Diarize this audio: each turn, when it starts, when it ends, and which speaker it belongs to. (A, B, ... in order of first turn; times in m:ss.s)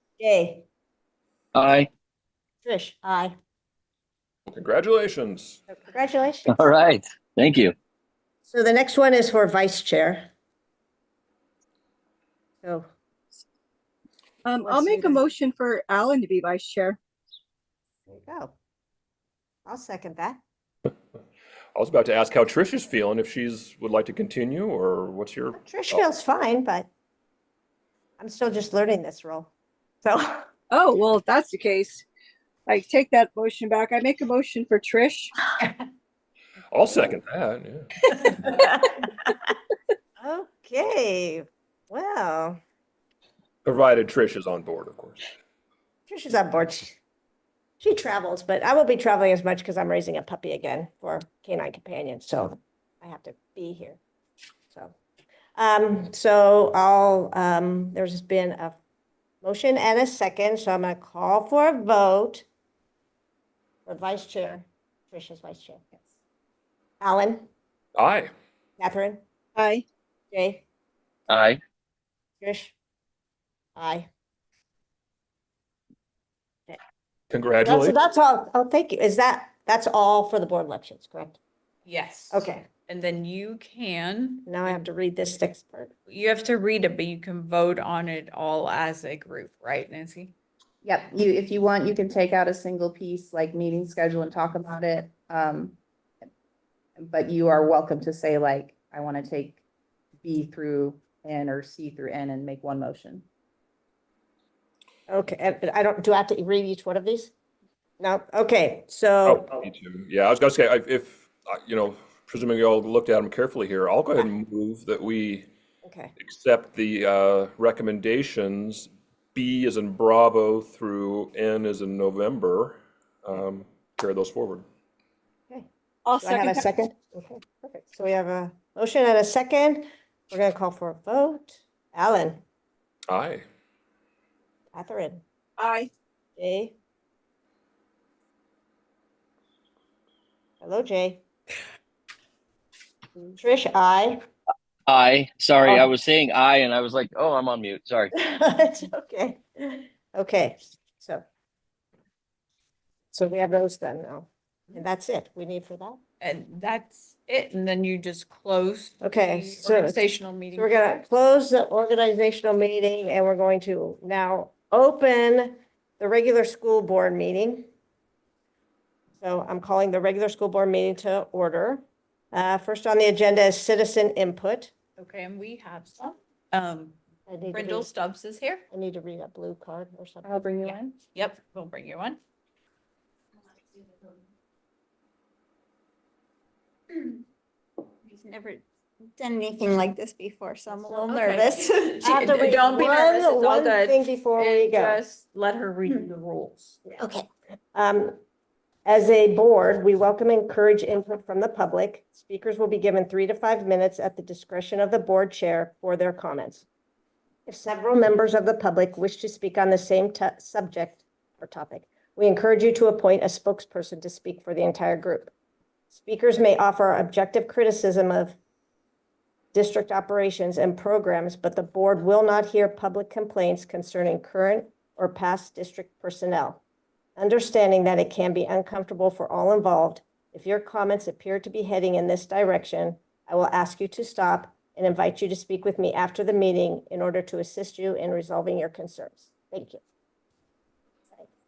0:00.2-0:00.7 A
0:01.5-0:01.9 B
0:02.6-0:03.3 A
0:04.5-0:05.6 C
0:05.7-0:06.5 A
0:06.5-0:07.7 B
0:08.4-0:10.3 A
0:12.6-0:12.9 A
0:14.4-0:17.0 D
0:14.6-0:15.2 A
0:18.1-0:18.6 A
0:19.7-0:20.4 A
0:21.7-0:26.0 C
0:25.6-0:26.9 A
0:28.2-0:29.5 A
0:30.0-0:30.5 A
0:30.7-0:32.0 D
0:32.7-0:35.3 D
0:36.7-0:37.9 C
0:40.2-0:42.6 A
0:43.6-0:45.2 C
0:46.1-0:47.0 A
0:47.8-0:54.0 A
0:55.6-0:58.8 A
0:59.4-1:02.4 A
1:03.8-1:05.8 A
1:07.0-1:07.5 A
1:08.0-1:08.3 C
1:08.8-1:09.2 A
1:09.6-1:09.8 D
1:10.3-1:10.6 A
1:11.3-1:11.6 B
1:12.4-1:12.7 A
1:13.8-1:14.1 A
1:17.3-1:18.0 C
1:17.6-1:21.4 A
1:21.8-1:24.5 E
1:22.3-1:22.6 A
1:24.4-1:25.9 A
1:26.1-1:30.3 E
1:30.8-1:35.8 F
1:37.0-1:39.6 F
1:40.2-1:43.2 F
1:45.1-1:47.3 A
1:48.0-1:49.5 A
1:49.2-1:55.5 C
1:55.8-1:56.1 A
1:56.2-2:04.6 C
2:06.0-2:06.7 D
2:06.2-2:12.4 A
2:13.1-2:13.4 C
2:14.7-2:15.2 A
2:15.6-2:15.9 D
2:16.4-2:16.8 A
2:20.6-2:21.2 A
2:23.2-2:24.2 A
2:24.9-2:28.1 B
2:28.1-2:31.2 A
2:33.1-2:36.0 A
2:36.2-2:41.0 E
2:39.0-2:47.7 A
2:49.2-2:54.8 A
2:55.0-2:57.0 E
2:57.3-2:57.9 A
2:57.5-2:58.6 E
2:58.7-3:00.3 A
3:00.2-3:01.0 F
3:00.6-3:02.2 E
3:03.5-3:04.2 G
3:06.9-3:07.2 G
3:08.0-3:08.6 G
3:09.2-3:12.3 G
3:10.9-3:16.8 E
3:12.0-3:15.0 A
3:17.0-3:17.3 G
3:17.8-3:18.2 A
3:18.9-3:26.7 A
3:27.5-3:35.3 A
3:35.9-3:38.4 A
3:39.5-3:46.6 A
3:47.2-3:59.8 A